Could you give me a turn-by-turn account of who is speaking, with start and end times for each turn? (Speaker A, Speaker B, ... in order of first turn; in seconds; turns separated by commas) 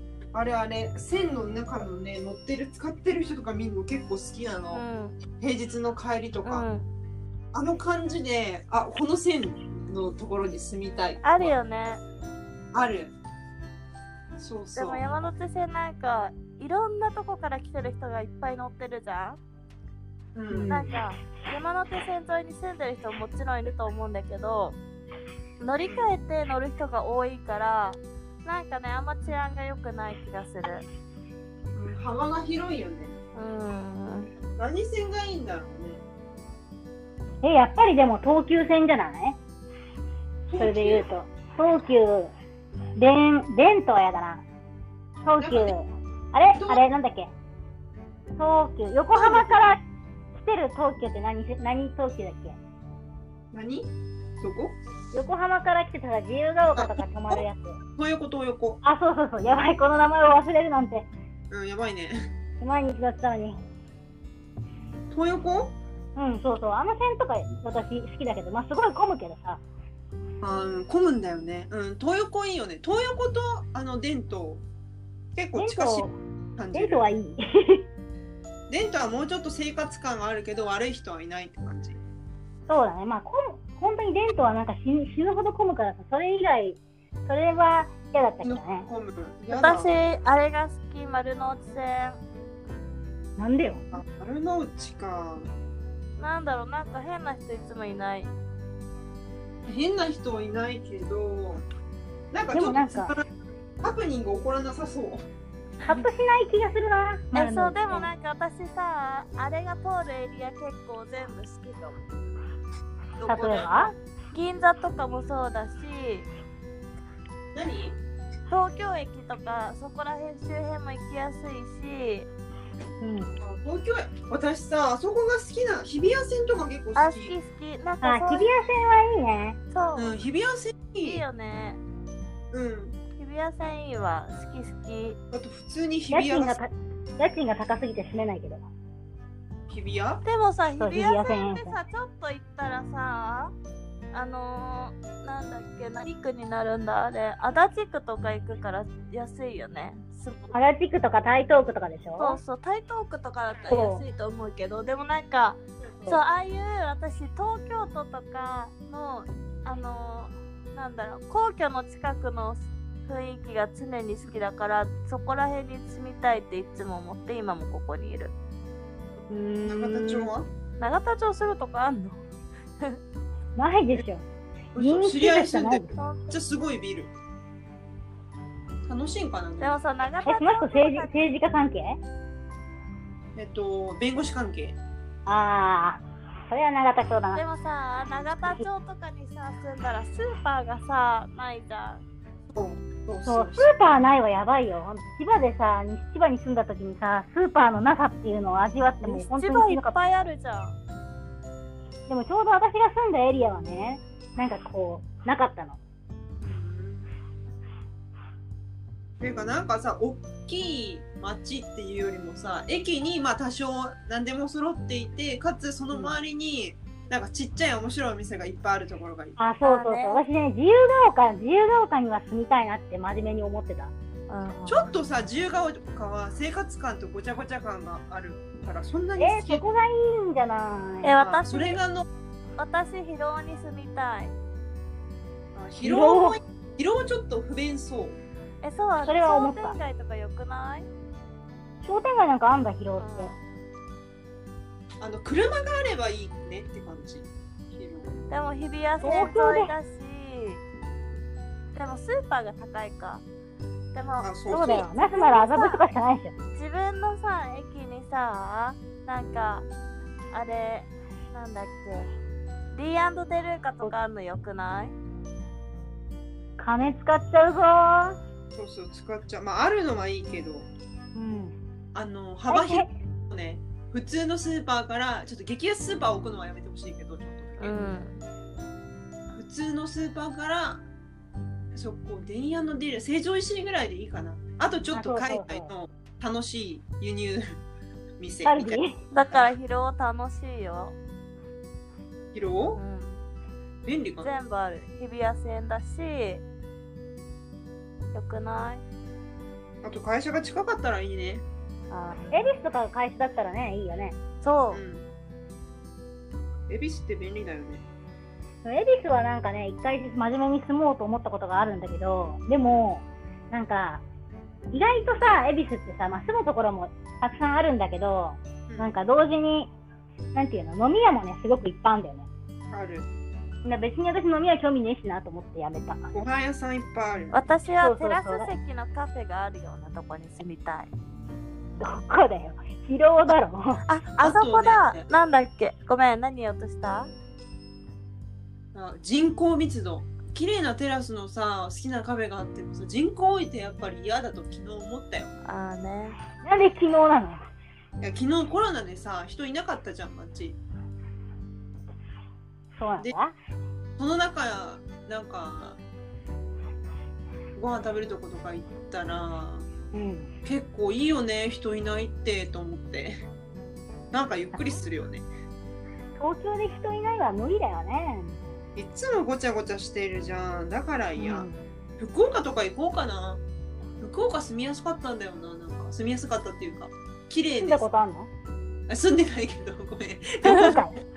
Speaker A: 0.3-6.7, Speaker B: 4.7-5.2, Speaker B: 6.4-6.8, Speaker A: 7.5-11.6, Speaker B: 11.2-12.0, Speaker A: 12.7-13.1, Speaker A: 14.4-15.2, Speaker B: 14.8-19.4, Speaker A: 20.3-20.9, Speaker C: 20.5-20.9, Speaker B: 20.7-24.8, Speaker B: 25.6-30.8, Speaker A: 31.7-33.2, Speaker B: 33.4-34.3, Speaker A: 34.5-36.0, Speaker C: 37.4-39.4, Speaker A: 40.5-41.0, Speaker C: 40.6-42.3, Speaker C: 43.0-44.4, Speaker C: 45.2-47.3, Speaker A: 45.4-45.7, Speaker A: 46.5-46.8, Speaker C: 48.4-49.8, Speaker A: 49.1-49.6, Speaker C: 50.3-52.6, Speaker A: 53.5-53.9, Speaker A: 54.4-54.8, Speaker C: 55.1-57.8, Speaker A: 56.7-57.4, Speaker A: 58.0-58.8, Speaker C: 58.8-61.1, Speaker A: 61.5-62.2, Speaker C: 62.6-63.6, Speaker A: 65.1-65.7, Speaker C: 66.2-69.6, Speaker A: 70.4-74.6, Speaker A: 75.3-76.0, Speaker C: 75.5-76.2, Speaker A: 76.6-77.1, Speaker C: 76.7-77.8, Speaker A: 78.7-82.0, Speaker C: 82.7-88.9, Speaker A: 88.4-89.9, Speaker B: 89.5-92.2, Speaker C: 93.4-93.9, Speaker A: 93.9-95.5, Speaker B: 96.2-98.3, Speaker A: 99.7-101.6, Speaker A: 102.3-103.3, Speaker C: 102.5-103.1, Speaker A: 103.8-105.2, Speaker C: 105.8-108.1, Speaker B: 107.3-112.0, Speaker A: 113.2-113.9, Speaker C: 113.2-113.9, Speaker B: 114.3-116.3, Speaker A: 117.5-118.0, Speaker B: 118.5-122.3, Speaker C: 123.0-123.3, Speaker A: 123.4-127.3, Speaker B: 127.0-128.5, Speaker C: 128.0-129.6, Speaker B: 129.7-130.1, Speaker A: 129.9-131.2, Speaker B: 131.0-131.8, Speaker A: 132.5-133.0, Speaker B: 133.2-135.2, Speaker A: 135.3-136.6, Speaker C: 136.1-138.6, Speaker A: 139.7-140.2, Speaker B: 140.2-143.5, Speaker C: 140.8-141.8, Speaker B: 144.1-150.5, Speaker C: 150.5-152.4, Speaker B: 152.2-168.3, Speaker C: 153.7-154.0, Speaker C: 169.3-170.3, Speaker A: 169.7-170.5, Speaker B: 170.8-172.3, Speaker C: 173.6-174.2, Speaker A: 174.7-177.1, Speaker C: 174.8-175.9, Speaker B: 176.0-176.3, Speaker A: 178.9-179.8, Speaker B: 179.6-181.1, Speaker C: 180.2-182.0, Speaker A: 183.3-184.8, Speaker C: 185.2-187.4, Speaker B: 187.3-192.0, Speaker A: 192.5-193.7, Speaker C: 193.2-200.2, Speaker B: 199.0-200.8, Speaker C: 202.1-205.8, Speaker A: 206.4-207.1, Speaker A: 209.2-219.4, Speaker C: 219.4-223.9, Speaker B: 219.6-220.2, Speaker B: 224.3-224.9, Speaker A: 224.7-229.6, Speaker C: 229.2-231.1, Speaker B: 231.0-231.8, Speaker A: 231.2-232.1, Speaker B: 232.6-234.3, Speaker A: 235.5-238.2, Speaker C: 235.8-236.4, Speaker B: 238.6-240.9, Speaker C: 239.1-239.8, Speaker C: 241.8-243.3, Speaker B: 243.0-243.4, Speaker A: 245.0-248.2, Speaker B: 248.3-250.6, Speaker C: 249.0-249.7, Speaker B: 251.7-253.2, Speaker B: 253.9-255.8, Speaker A: 254.2-254.9, Speaker C: 254.5-256.3, Speaker B: 256.5-259.6, Speaker B: 260.3-262.1, Speaker B: 262.7-264.9, Speaker C: 266.6-268.2, Speaker A: 268.5-270.7, Speaker C: 271.1-271.6, Speaker A: 271.9-277.9, Speaker C: 272.5-272.9, Speaker B: 277.6-278.2, Speaker A: 279.3-280.8, Speaker A: 281.7-287.6, Speaker C: 284.9-285.7, Speaker A: 288.2-288.8, Speaker C: 288.4-289.0, Speaker B: 289.1-290.9, Speaker A: 292.3-292.8, Speaker B: 292.8-293.2, Speaker A: 293.8-294.4, Speaker B: 294.2-296.4, Speaker B: 298.1-298.8, Speaker A: 299.8-301.4, Speaker B: 301.9-302.4, Speaker C: 302.3-304.2, Speaker B: 304.4-304.8, Speaker A: 304.7-305.1, Speaker A: 306.7-307.8, Speaker C: 308.6-314.0, Speaker C: 314.7-319.7, Speaker A: 318.7-318.9, Speaker C: 320.3-322.3, Speaker A: 322.7-323.1, Speaker C: 323.6-326.1, Speaker A: 326.1-327.4, Speaker B: 327.3-330.9, Speaker C: 327.8-328.5, Speaker C: 331.8-333.8, Speaker B: 333.9-337.1, Speaker A: 334.2-335.0, Speaker A: 338.7-345.3, Speaker B: 345.4-346.2, Speaker C: 346.4-347.4, Speaker A: 348.0-350.6, Speaker C: 352.8-353.3, Speaker A: 354.0-355.8, Speaker A: 357.5-359.7, Speaker C: 359.9-360.3, Speaker A: 360.4-363.1, Speaker A: 364.1-365.3, Speaker C: 366.1-368.6, Speaker A: 368.8-373.4, Speaker C: 371.2-371.6, Speaker A: 374.0-377.9, Speaker C: 377.6-378.3, Speaker A: 378.9-380.8, Speaker C: 380.4-381.0